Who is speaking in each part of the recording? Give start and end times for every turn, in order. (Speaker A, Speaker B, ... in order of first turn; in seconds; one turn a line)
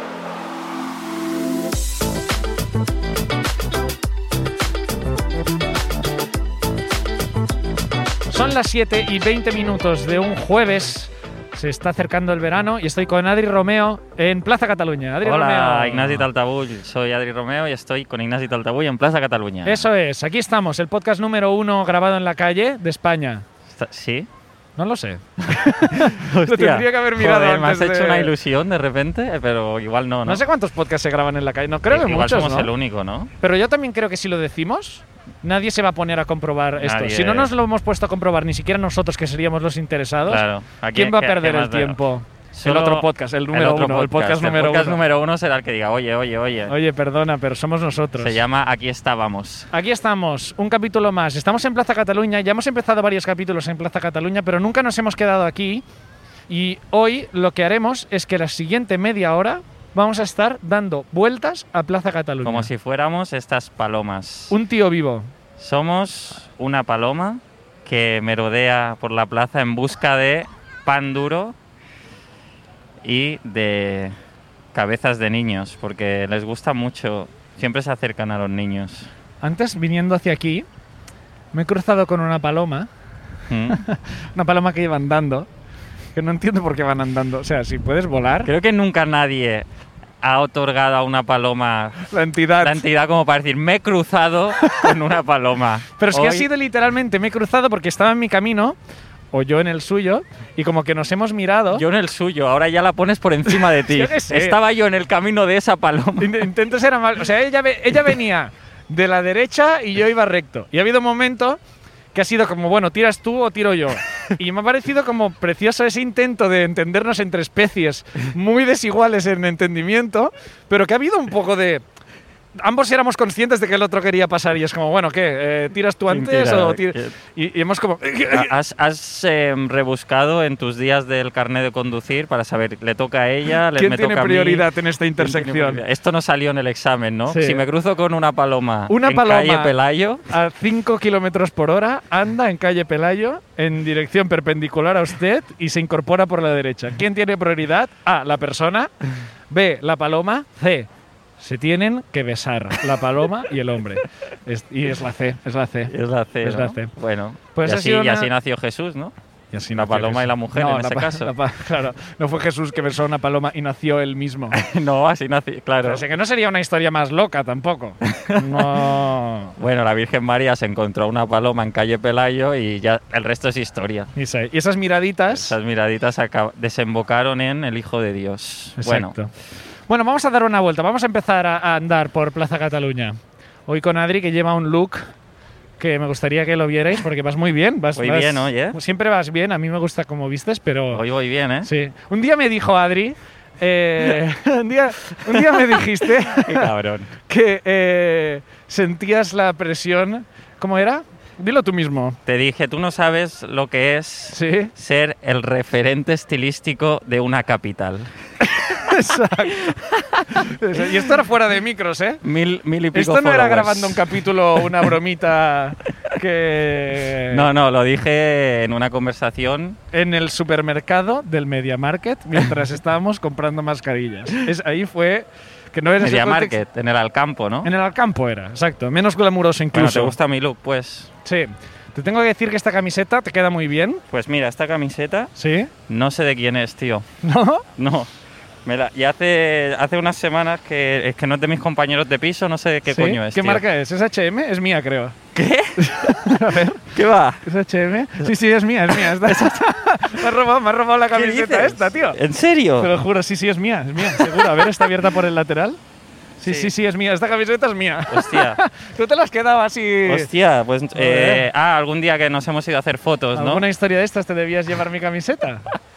Speaker A: 8.2-16.2
Speaker B: 15.2-19.9
Speaker A: 19.6-23.4
Speaker B: 23.7-24.3
Speaker A: 24.8-28.3
Speaker B: 25.5-30.4
Speaker A: 30.2-32.7
Speaker B: 31.9-33.3
Speaker A: 33.4-45.0
Speaker B: 36.8-37.5
Speaker B: 40.2-42.0
Speaker B: 42.5-46.7
Speaker A: 46.7-48.4
Speaker B: 48.2-49.7
Speaker A: 49.7-55.8
Speaker A: 56.5-62.7
Speaker B: 62.4-64.6
Speaker A: 64.5-65.3
Speaker B: 65.6-71.5
Speaker B: 73.0-74.2
Speaker B: 74.7-79.1
Speaker A: 79.4-80.6
Speaker A: 81.5-82.9
Speaker B: 83.5-83.8
Speaker A: 83.7-85.5
Speaker A: 86.1-88.5
Speaker B: 88.4-89.7
Speaker B: 90.2-92.1
Speaker A: 92.1-92.8
Speaker B: 92.6-96.5
Speaker A: 96.0-98.8
Speaker A: 99.3-101.8
Speaker B: 101.7-106.5
Speaker A: 103.5-104.6
Speaker A: 106.2-111.6
Speaker A: 112.1-121.8
Speaker A: 122.6-128.5
Speaker B: 126.1-127.1
Speaker B: 128.3-134.7
Speaker A: 133.7-135.8
Speaker B: 135.2-140.3
Speaker A: 137.3-137.6
Speaker A: 138.9-139.7
Speaker A: 140.3-148.9
Speaker A: 149.5-150.9
Speaker A: 151.4-156.9
Speaker B: 155.9-159.1
Speaker A: 157.5-158.3
Speaker A: 159.5-164.6
Speaker B: 159.7-161.3
Speaker B: 164.5-166.0
Speaker A: 165.8-169.5
Speaker B: 168.0-169.0
Speaker B: 169.6-174.1
Speaker A: 174.2-175.5
Speaker B: 175.3-179.1
Speaker A: 178.8-179.3
Speaker A: 179.9-183.2
Speaker A: 183.7-185.0
Speaker A: 185.8-191.0
Speaker B: 187.9-188.8
Speaker B: 190.9-191.7
Speaker A: 191.6-196.7
Speaker B: 195.2-197.1
Speaker A: 197.3-202.2
Speaker B: 202.2-208.1
Speaker A: 204.3-204.7
Speaker A: 208.4-212.2
Speaker B: 209.6-211.1
Speaker B: 212.2-214.9
Speaker A: 212.9-217.5
Speaker B: 217.3-219.8
Speaker A: 219.9-226.6
Speaker B: 226.0-227.7
Speaker A: 227.6-230.2
Speaker B: 229.7-231.1
Speaker A: 231.2-234.0
Speaker B: 234.1-235.3
Speaker A: 235.4-235.7
Speaker B: 235.9-237.1
Speaker A: 237.2-237.6
Speaker B: 237.8-238.1
Speaker B: 238.6-243.6
Speaker A: 242.9-245.2
Speaker B: 245.3-247.4
Speaker A: 245.8-246.9
Speaker A: 247.4-252.2
Speaker B: 248.9-249.6
Speaker B: 251.1-252.9
Speaker A: 252.8-255.8
Speaker B: 254.0-254.8
Speaker A: 256.4-260.3
Speaker B: 256.4-256.7
Speaker B: 258.1-258.6
Speaker B: 260.1-263.7
Speaker A: 260.9-261.4
Speaker A: 263.3-265.7